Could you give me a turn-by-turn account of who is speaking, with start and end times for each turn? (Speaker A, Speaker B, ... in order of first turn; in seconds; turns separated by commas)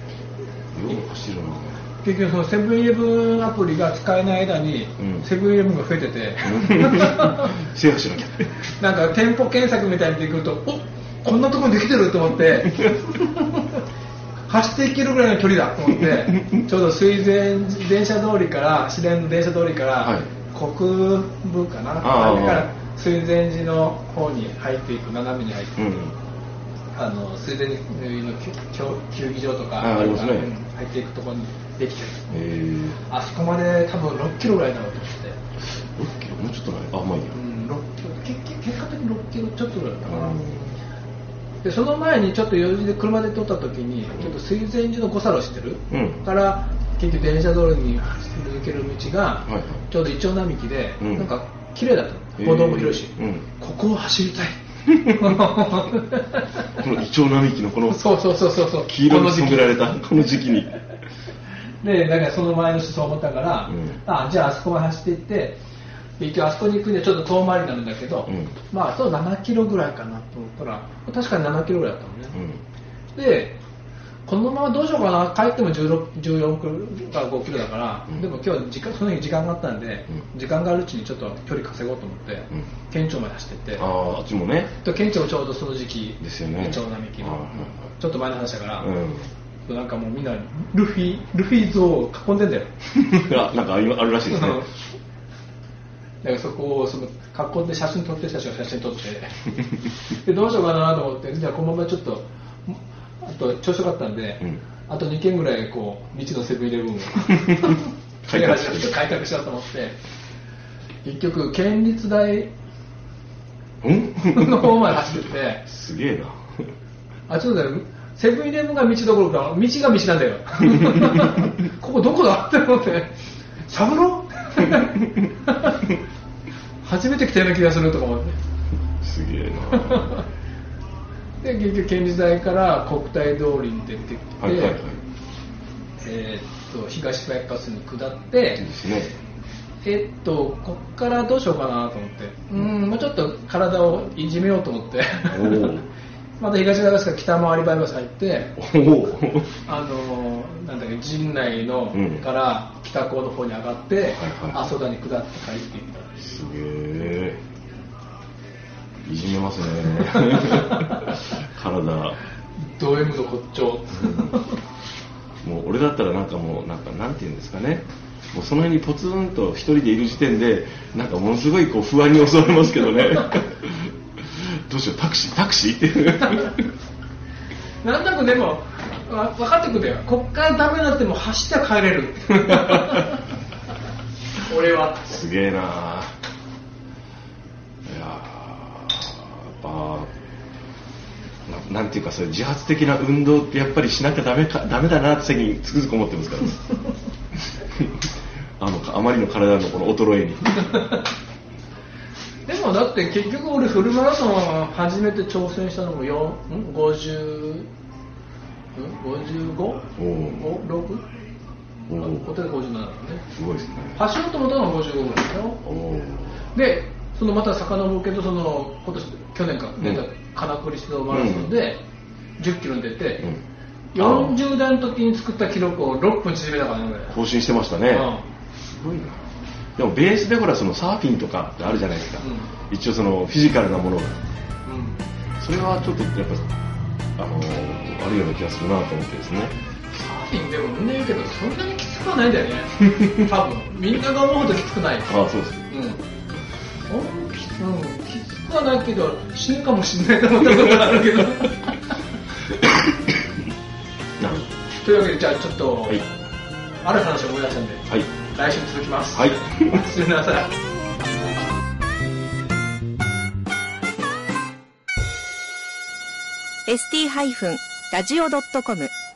Speaker A: 0.7-1.8, Speaker B: 2.0-7.6, Speaker A: 6.5-8.5, Speaker B: 8.8-13.8, Speaker B: 14.5-25.8, Speaker A: 22.0-22.7, Speaker A: 25.8-26.1, Speaker B: 26.9-32.3, Speaker A: 29.8-30.5, Speaker A: 32.3-33.0, Speaker B: 33.0-35.4, Speaker A: 35.6-37.4, Speaker B: 37.3-40.4, Speaker A: 40.0-40.7, Speaker B: 41.6-56.6, Speaker A: 45.9-46.2, Speaker A: 49.5-49.8, Speaker A: 51.0-51.3, Speaker A: 52.4-53.5, Speaker A: 56.7-58.1, Speaker B: 57.9-59.8, Speaker A: 58.8-60.7, Speaker B: 61.8-65.6, Speaker A: 63.7-64.0, Speaker B: 66.2-72.4, Speaker A: 68.3-68.5, Speaker A: 72.3-72.6, Speaker B: 73.1-73.6, Speaker B: 74.2-83.9, Speaker A: 83.8-84.7, Speaker B: 84.8-88.9, Speaker A: 86.2-87.9, Speaker A: 88.8-89.3, Speaker B: 89.6-92.7, Speaker A: 92.9-94.7, Speaker B: 94.3-94.7, Speaker B: 96.2-99.5, Speaker B: 100.1-110.0, Speaker A: 108.2-109.0, Speaker B: 111.0-112.5, Speaker A: 113.8-116.7, Speaker B: 114.2-115.6, Speaker B: 117.3-123.1, Speaker B: 123.7-125.9, Speaker B: 126.8-128.3, Speaker A: 129.0-130.2, Speaker B: 129.7-130.2, Speaker B: 131.4-134.8, Speaker A: 134.4-135.0, Speaker B: 136.0-138.6, Speaker A: 138.6-139.2, Speaker B: 139.8-145.7, Speaker A: 145.3-145.9, Speaker B: 146.4-148.6, Speaker A: 148.6-149.5, Speaker B: 149.6-156.2, Speaker A: 151.9-152.2, Speaker A: 154.1-154.7, Speaker A: 156.2-157.4, Speaker A: 159.1-162.2, Speaker B: 160.2-161.1, Speaker B: 162.8-164.6, Speaker A: 164.0-164.4, Speaker A: 165.4-176.7, Speaker B: 177.8-183.2, Speaker B: 184.4-185.2, Speaker A: 185.0-186.1, Speaker A: 187.8-190.1, Speaker A: 191.5-196.6, Speaker A: 198.6-200.8, Speaker B: 202.4-207.7, Speaker B: 208.7-211.0, Speaker A: 210.0-210.5, Speaker A: 211.9-212.3, Speaker B: 211.9-213.2, Speaker A: 213.4-214.0, Speaker B: 213.9-215.6, Speaker A: 215.6-216.4, Speaker B: 216.5-221.8, Speaker A: 219.8-220.1, Speaker A: 221.1-221.5, Speaker B: 222.4-223.3, Speaker B: 223.9-227.2, Speaker A: 223.9-224.4, Speaker A: 227.1-234.2, Speaker B: 227.9-228.2, Speaker B: 232.2-232.5, Speaker B: 234.6-235.0, Speaker A: 235.4-236.5, Speaker A: 237.2-239.5, Speaker B: 239.9-245.2, Speaker A: 245.1-245.7, Speaker B: 245.7-246.0, Speaker B: 246.9-251.9, Speaker A: 254.2-254.5, Speaker B: 254.8-256.1, Speaker B: 256.8-260.6, Speaker A: 259.1-259.8, Speaker C: 266.7-268.9